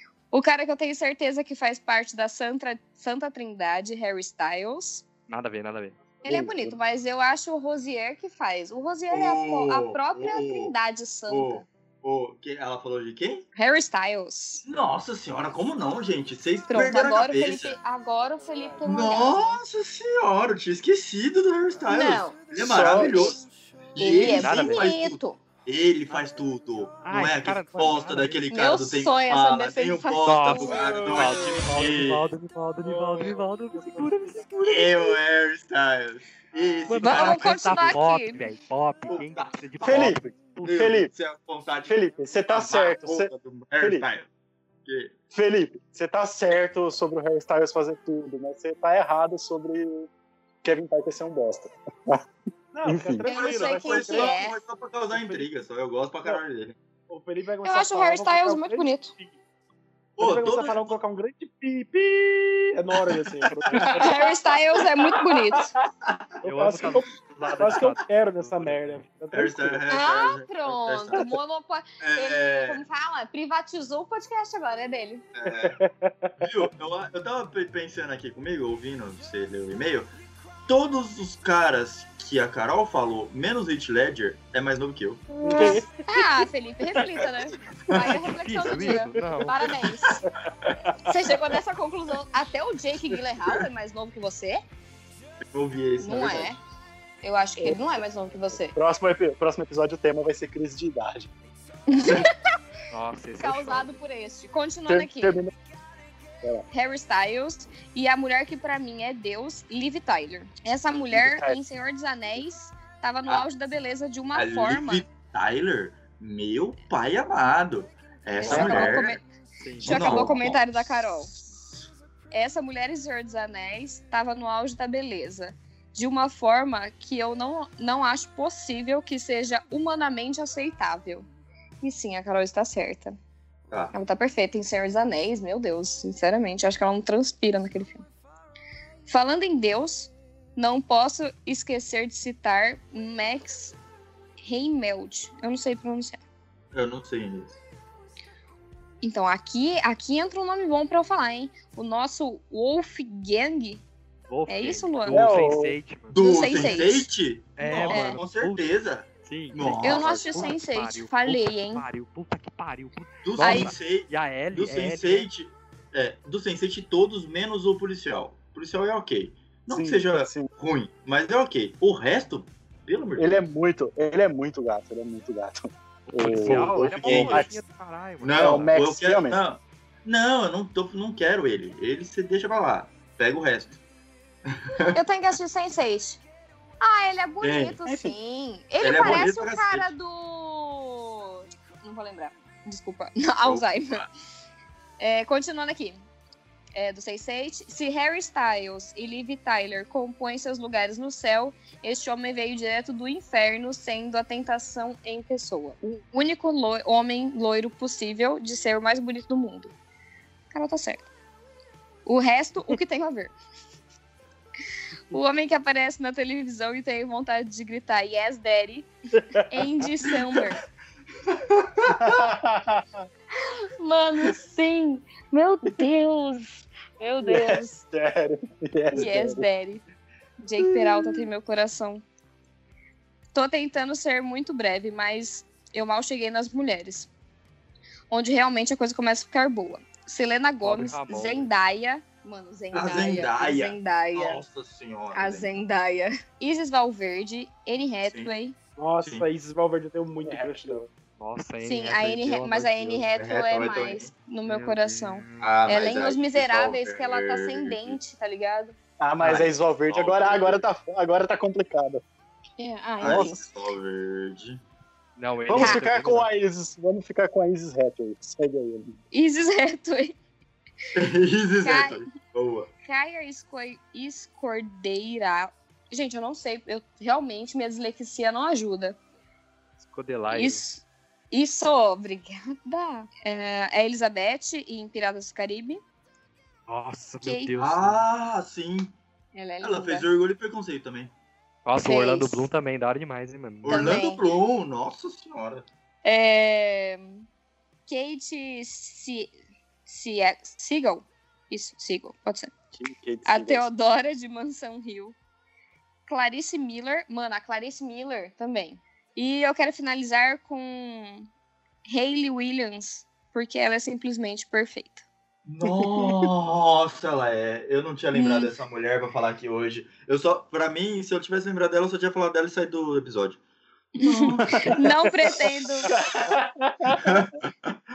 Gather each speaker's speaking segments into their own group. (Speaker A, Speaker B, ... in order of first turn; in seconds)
Speaker A: 0.3-5.0, 6.2-11.7, 13.6-14.7, 16.7-19.6, 21.9-22.4, 24.0-25.4, 28.5-30.8, 37.0-38.4, 53.2-54.6, 57.6-59.1, 64.0-65.7, 69.9-75.3, 86.1-90.3, 91.0-94.6, 96.0-96.6, 97.2-98.8, 101.9-102.3, 103.4-105.4, 106.7-115.1, 118.4-119.2, 119.8-121.3, 122.3-131.3, 131.8-133.2, 133.9-138.1, 139.1-143.8, 144.4-146.2, 149.0-153.8, 154.5-155.3, 156.2-157.1, 157.9-158.2, 159.8-161.8, 163.4-163.7, 184.9-186.2, 186.8-194.1, 195.0-196.1, 196.8-209.7, 210.5-211.1, 212.1-213.3, 215.1-218.9, 219.5-220.6, 223.4-227.8, 228.9-229.8, 230.4-232.1, 233.3-237.1, 238.1-244.4, 245.1-248.6, 251.6-258.8, 262.6-263.4, 265.6-265.8, 269.1-270.2, 271.6-272.0, 272.8-279.0, 280.3-285.8, 287.2-287.5, 289.3-290.1, 291.8-292.5, 293.7-294.2, 296.0-297.2, 297.9-299.4, 299.9-302.5, 303.2-305.2, 306.1-311.3, 311.9-315.0, 318.1-318.5, 324.0-325.9
Speaker B: 5.3-6.0, 24.3-24.9, 27.0-28.4, 30.2-34.6, 36.9-40.8, 66.4-69.0, 88.1-89.6, 102.9-104.0, 118.5-119.0, 119.6-120.4, 154.3-156.2, 157.6-165.3, 176.1-178.7, 240.6-241.5, 251.2-253.1, 254.5-255.6, 259.2-259.5, 265.2-266.3, 279.8-280.6, 286.7-288.1, 291.6-294.0
Speaker C: 6.2-6.8, 22.5-23.4, 39.8-41.1, 41.9-44.1, 45.3-50.1, 50.6-52.2, 52.9-53.3, 98.6-101.3, 104.9-105.5, 111.1-111.6, 118.5-119.0, 155.1-155.8, 169.7-170.5, 173.2-177.5, 178.3-179.4, 187.8-188.2, 219.2-219.6, 221.8-223.1, 227.2-229.4, 250.2-250.8, 259.0-262.0, 263.0-263.3, 265.5-269.0, 302.7-303.7, 315.6-316.3, 324.1-327.2
Speaker D: 9.1-10.7, 11.3-13.4, 14.7-17.8, 18.8-32.3, 34.6-38.0, 39.1-42.0, 42.5-44.3, 44.9-45.2, 53.3-56.8, 60.2-61.0, 63.8-64.0, 69.3-71.3, 72.0-72.8, 75.3-75.8, 76.4-80.1, 80.7-85.8, 90.1-90.8, 95.5-96.6, 114.3-119.2, 119.8-121.8, 146.7-147.6, 156.1-160.5, 163.2-173.5, 176.8-177.5, 178.2-183.8, 184.5-185.0, 187.4-187.8, 188.8-189.9, 221.3-221.9, 242.7-245.6, 248.1-248.3, 253.1-254.1, 255.4-258.0, 259.2-260.7, 263.0-264.6, 270.9-272.7, 287.6-289.0, 289.6-291.1, 293.6-295.7, 315.5-323.4, 326.9-327.7
Speaker E: 18.5-18.8, 30.7-31.9, 32.8-34.3, 52.7-54.4, 55.1-55.5, 57.1-59.4, 60.2-64.3, 66.4-69.8, 75.5-76.3, 85.4-86.0, 88.9-89.4, 90.8-91.2, 248.8-250.9